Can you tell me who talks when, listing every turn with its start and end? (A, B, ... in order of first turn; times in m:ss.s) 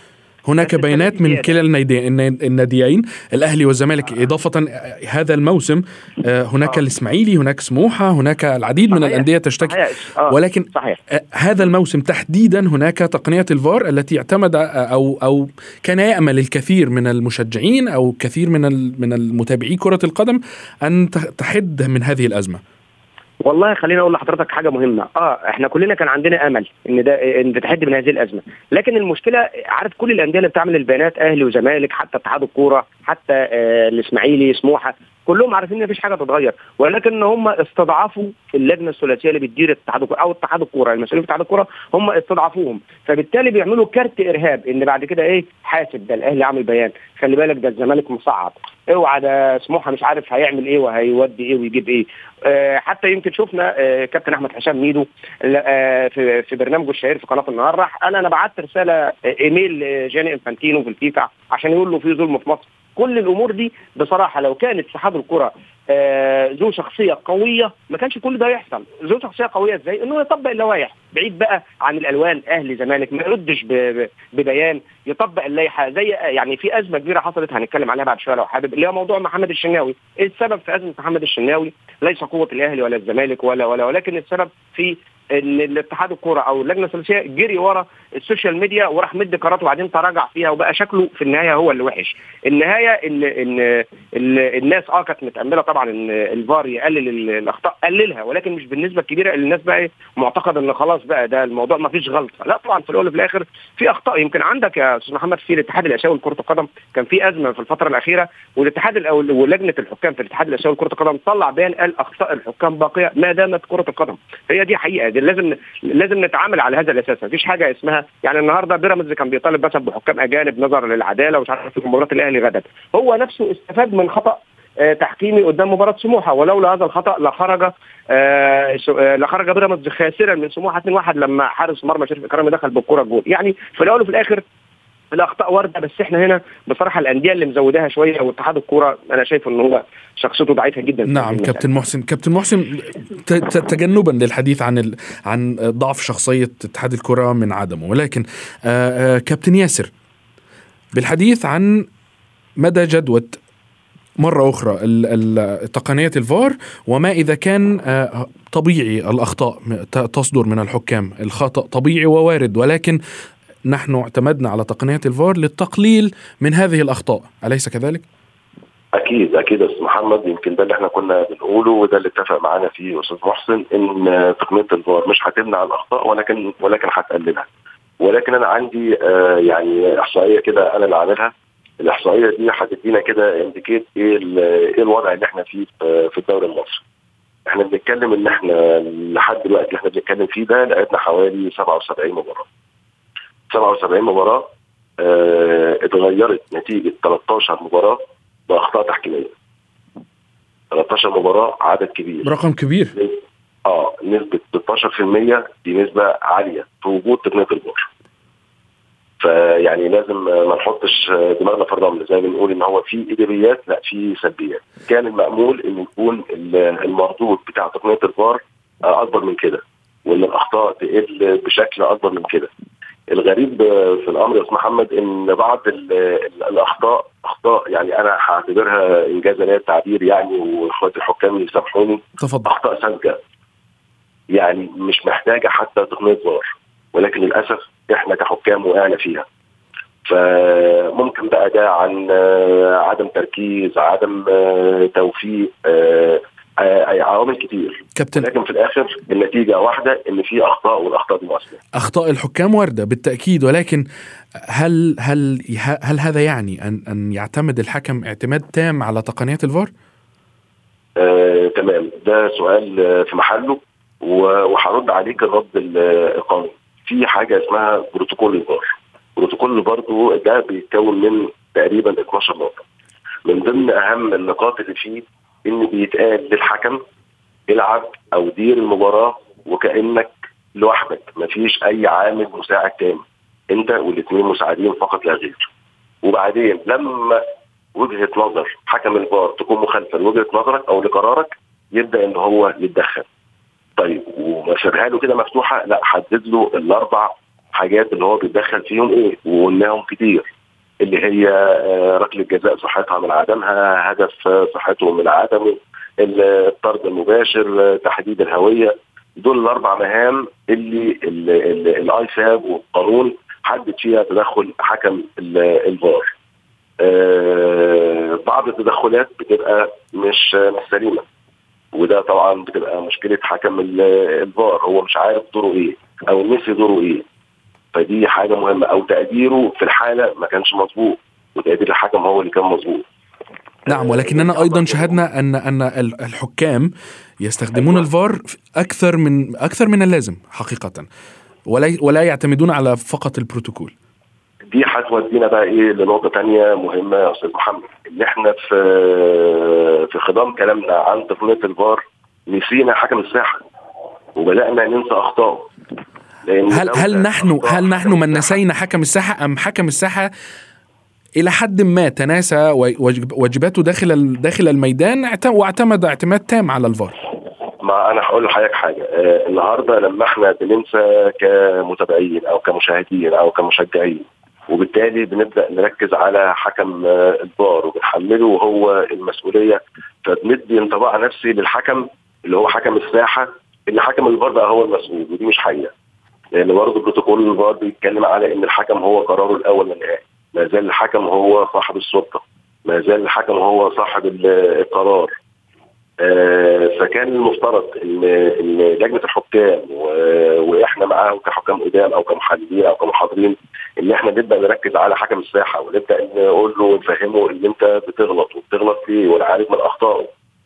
0:00.4-0:22.6 A
0:00.6-0:01.5 B
0:08.9-0:11.0 B
0:23.4-2:14.4 B
2:15.1-2:21.7 B
2:21.1-2:29.9 A
2:30.9-2:31.9 A
2:32.6-2:33.4 A
2:34.2-2:43.0 A
2:43.7-2:48.0 A
2:48.9-2:57.5 C
2:58.0-3:06.8 C
3:07.5-3:12.5 C
3:13.5-3:19.3 C
3:20.7-3:22.3 C
3:22.2-3:23.0 A
3:23.0-3:27.9 C
3:29.2-3:42.5 C
3:43.1-3:53.2 C
3:52.2-3:52.5 A
3:54.3-3:59.2 C
4:00.0-4:11.6 C
4:08.0-4:08.3 A
4:11.8-4:13.8 A
4:14.5-4:19.7 A
4:21.0-4:32.6 C
4:33.2-4:36.8 C
4:37.5-4:45.5 C
4:46.0-4:47.2 C
4:47.8-4:53.1 C
4:53.8-5:00.2 C
5:00.8-5:16.1 C
5:16.8-5:21.0 C
5:21.7-5:27.0 C
5:27.7-5:32.8 C
5:33.7-5:35.0 C
5:33.7-5:40.9 A
5:37.6-5:37.9 C
5:41.5-5:43.7 A
5:44.5-5:53.4 C
5:54.2-5:55.5 C
5:56.2-5:58.4 C
5:56.5-6:00.1 A
6:01.2-6:07.0 A
6:07.6-6:25.7 C
6:26.4-6:35.1 C
6:36.0-6:50.1 C